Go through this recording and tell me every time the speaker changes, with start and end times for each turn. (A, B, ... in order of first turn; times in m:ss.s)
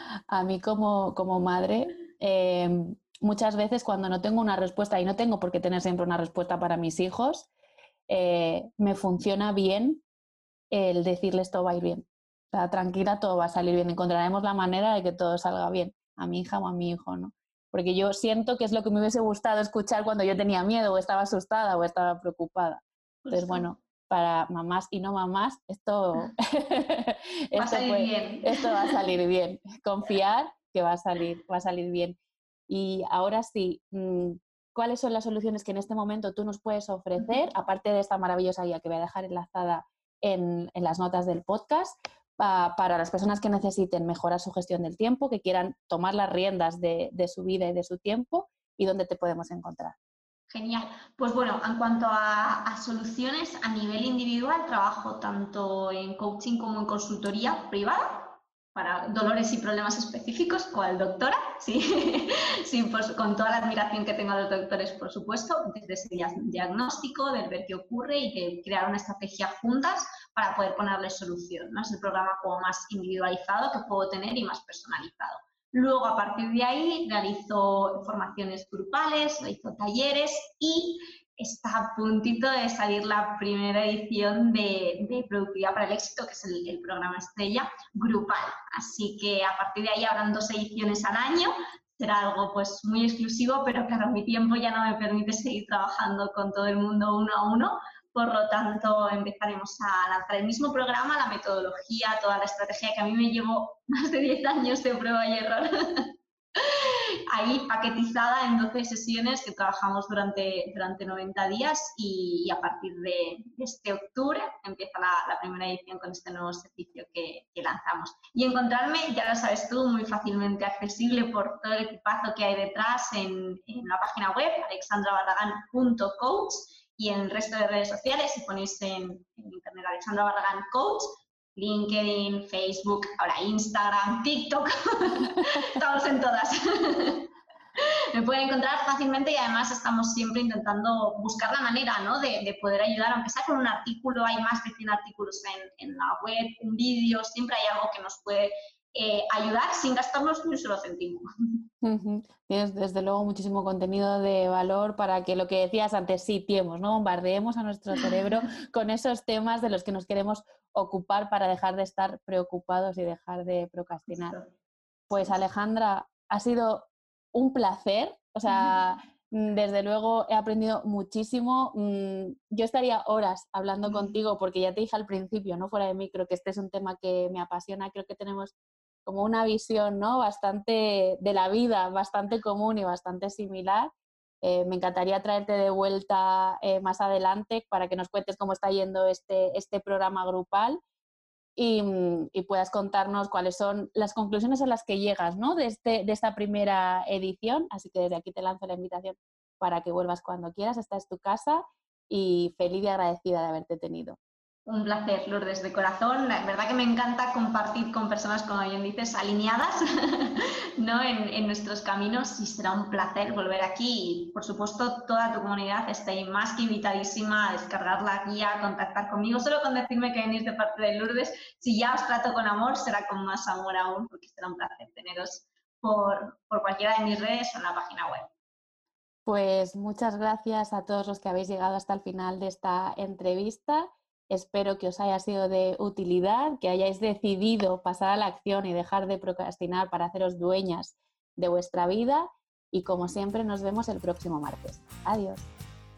0:00.3-0:07.5 A
0:08.1-0:10.0 A
0:10.7-0:32.2 A
0:23.2-0:23.7 B
0:27.6-0:29.0 B
0:32.7-0:50.0 A
0:50.5-2:31.2 B
2:31.8-2:44.4 A
2:38.0-2:38.4 B
2:44.1-2:44.5 B
2:45.1-2:58.5 A
2:48.5-2:48.8 B
2:53.9-2:54.1 B
2:59.1-3:03.9 A
3:04.4-3:10.8 A
3:11.6-3:24.2 A
3:24.7-3:48.3 B
3:49.3-4:05.5 A